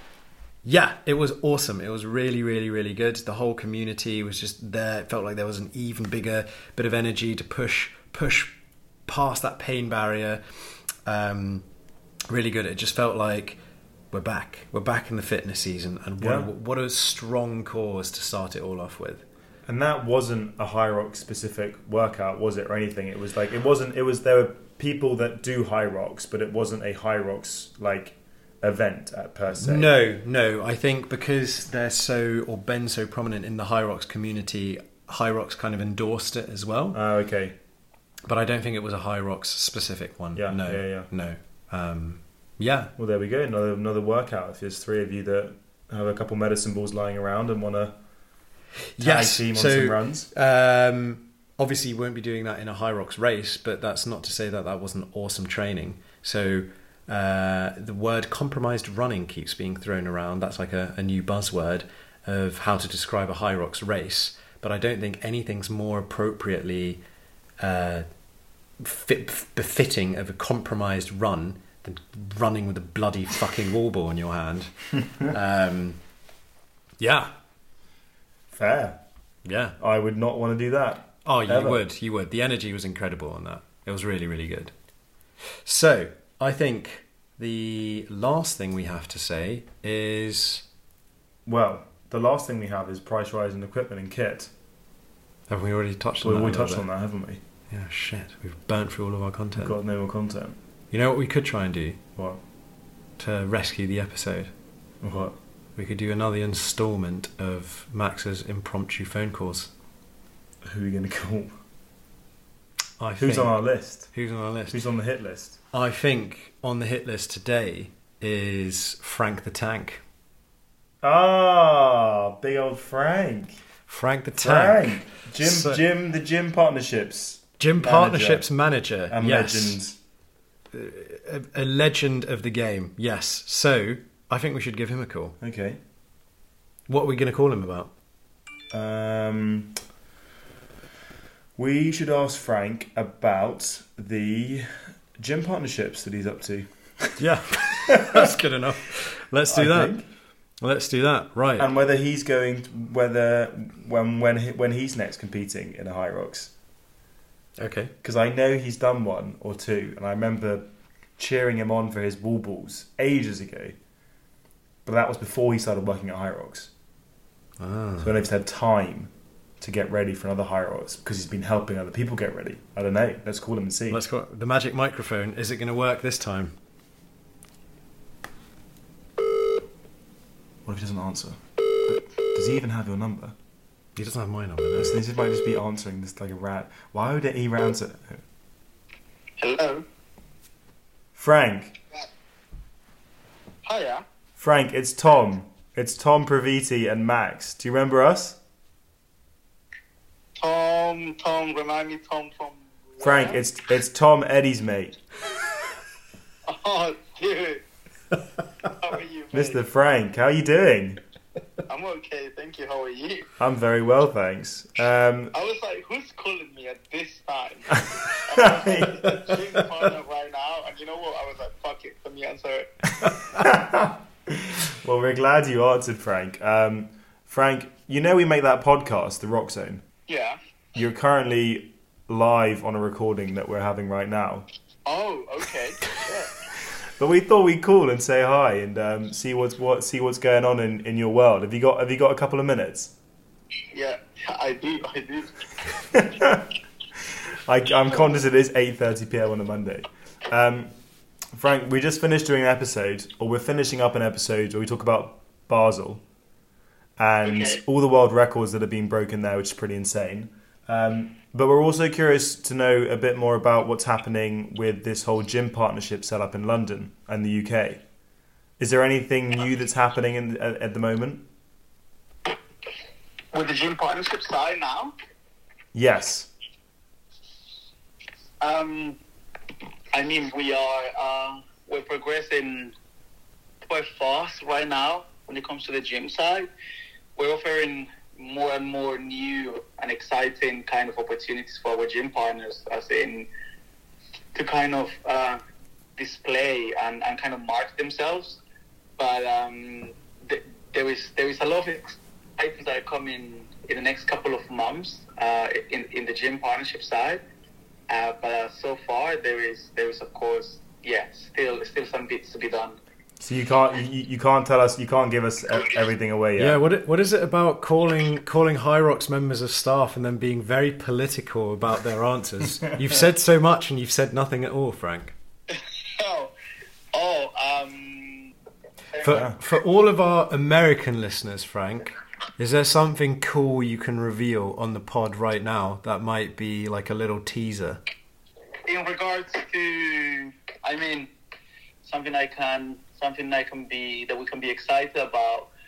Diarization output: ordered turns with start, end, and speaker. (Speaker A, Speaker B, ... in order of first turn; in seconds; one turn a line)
Speaker A: 0.6-8.6
Speaker A: 9.1-10.4
Speaker A: 11.1-11.6
Speaker A: 12.3-13.6
Speaker A: 14.1-19.2
Speaker B: 16.2-16.5
Speaker B: 19.6-29.9
Speaker A: 29.5-37.0
Speaker B: 36.9-37.6
Speaker A: 38.3-42.9
Speaker B: 40.4-41.1
Speaker B: 43.0-48.0
Speaker A: 49.0-67.0
Speaker B: 49.0-50.3
Speaker A: 67.6-68.1
Speaker A: 68.8-76.0
Speaker A: 77.0-77.3
Speaker B: 78.5-79.0
Speaker A: 79.4-79.8
Speaker B: 79.8-81.8
Speaker A: 81.2-84.7
Speaker A: 85.7-90.6
Speaker B: 91.5-94.5
Speaker A: 95.5-96.9
Speaker B: 96.2-97.4
Speaker A: 97.7-99.8
Speaker B: 99.6-100.6
Speaker A: 100.9-102.0
Speaker A: 103.2-104.5
Speaker B: 105.0-105.4
Speaker A: 105.8-109.7
Speaker B: 110.6-111.5
Speaker A: 113.0-113.6
Speaker B: 113.2-114.1
Speaker A: 114.1-114.8
Speaker B: 114.7-115.6
Speaker A: 115.7-120.0
Speaker B: 121.0-123.6
Speaker A: 123.9-125.8
Speaker B: 124.4-128.5
Speaker A: 127.6-129.8
Speaker B: 129.1-130.0
Speaker A: 130.7-135.4
Speaker B: 135.4-135.8
Speaker A: 136.9-137.9
Speaker B: 138.7-139.8
Speaker B: 141.6-148.4
Speaker A: 147.2-150.0
Speaker B: 149.5-150.1
Speaker A: 150.6-151.7
Speaker B: 151.6-156.5
Speaker A: 157.6-157.9
Speaker B: 158.0-163.8
Speaker B: 164.8-166.7
Speaker A: 167.6-168.1
Speaker B: 168.0-174.0
Speaker A: 173.9-176.6
Speaker B: 180.6-183.3
Speaker A: 183.9-185.0
Speaker B: 184.8-188.2
Speaker C: 189.4-189.8
Speaker B: 191.1-191.8
Speaker C: 193.6-194.0
Speaker B: 194.4-198.4
Speaker C: 200.4-203.4
Speaker B: 203.0-205.0
Speaker C: 206.4-207.6
Speaker C: 208.6-209.6
Speaker B: 209.3-211.0
Speaker C: 211.7-213.3
Speaker B: 213.4-215.3
Speaker C: 215.3-222.7
Speaker B: 217.8-219.4
Speaker B: 223.0-229.8
Speaker C: 230.1-230.4
Speaker B: 230.7-234.4
Speaker C: 234.9-236.4
Speaker B: 237.0-242.9
Speaker C: 243.7-245.8
Speaker B: 245.9-246.5
Speaker B: 247.3-250.7
Speaker B: 251.3-256.0
Speaker B: 257.0-267.8
Speaker C: 257.3-257.6
Speaker B: 268.6-271.3
Speaker C: 273.3-274.9
Speaker B: 275.7-276.3
Speaker C: 278.4-279.0
Speaker C: 279.9-282.7
Speaker C: 283.6-286.5
Speaker C: 287.1-293.3
Speaker C: 294.3-295.4
Speaker C: 296.0-298.4
Speaker C: 299.0-307.2
Speaker C: 307.9-312.8
Speaker B: 313.2-316.6
Speaker A: 316.4-325.1
Speaker C: 325.5-326.3
Speaker C: 326.9-328.3
Speaker C: 328.9-329.2
Speaker A: 329.0-337.8
Speaker B: 329.1-329.4
Speaker C: 338.6-341.1
Speaker C: 341.8-345.5